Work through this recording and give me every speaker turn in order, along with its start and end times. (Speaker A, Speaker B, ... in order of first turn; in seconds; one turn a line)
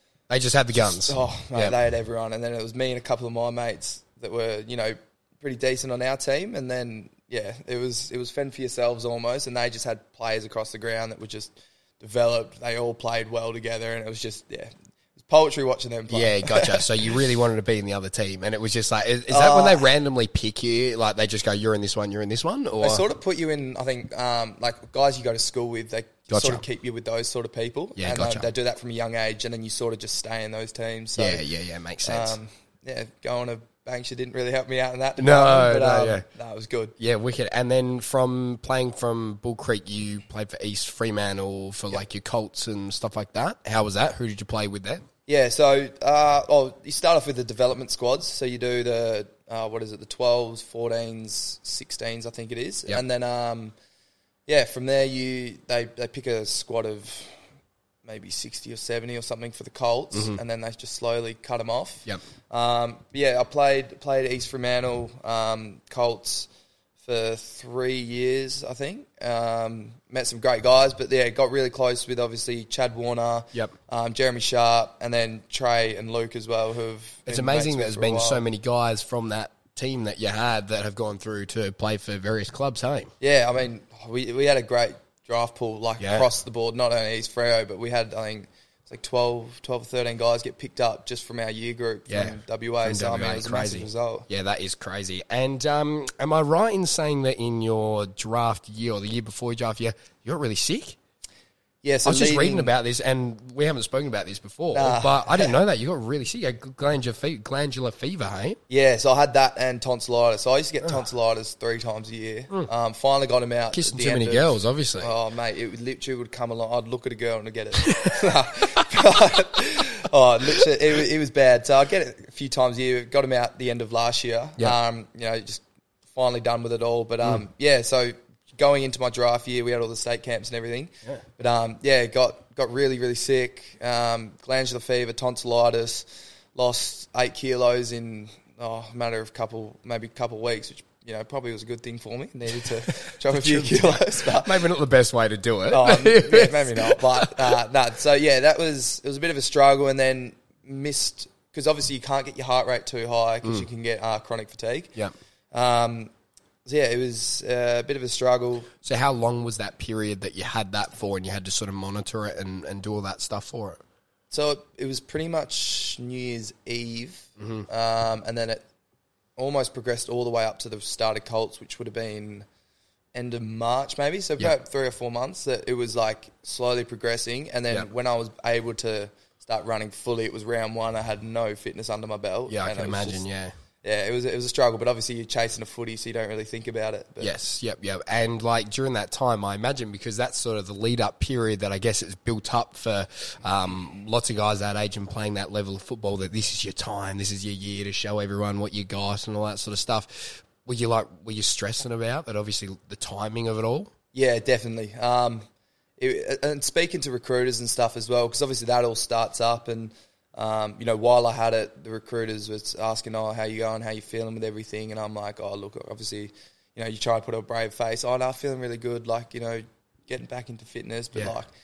Speaker A: 0.3-1.8
Speaker B: 0.7-16.8
Speaker A: 16.1-23.0
Speaker B: 19.3-19.9
Speaker B: 22.8-31.4
Speaker A: 26.3-26.6
Speaker A: 28.0-28.5
Speaker A: 31.1-32.4
Speaker B: 32.0-36.9
Speaker A: 35.2-36.2
Speaker A: 37.0-45.0
Speaker B: 45.3-53.7
Speaker B: 54.5-57.4
Speaker B: 58.0-66.5
Speaker A: 60.1-60.4
Speaker B: 67.0-78.4
Speaker A: 77.3-83.1
Speaker B: 83.2-94.3
Speaker A: 86.0-86.3
Speaker A: 92.1-101.0
Speaker B: 101.8-102.7
Speaker A: 102.0-108.6
Speaker B: 104.7-105.5
Speaker B: 108.7-144.6
Speaker A: 113.7-115.1
Speaker A: 143.0-147.6
Speaker B: 145.7-154.9
Speaker B: 155.5-156.1
Speaker B: 156.6-158.7
Speaker A: 158.8-163.8
Speaker B: 164.3-168.6
Speaker A: 167.4-167.7
Speaker B: 169.4-172.4
Speaker B: 173.1-183.2
Speaker A: 182.5-183.5
Speaker B: 183.8-187.3
Speaker A: 187.2-203.9
Speaker B: 204.1-205.4
Speaker B: 206.0-221.5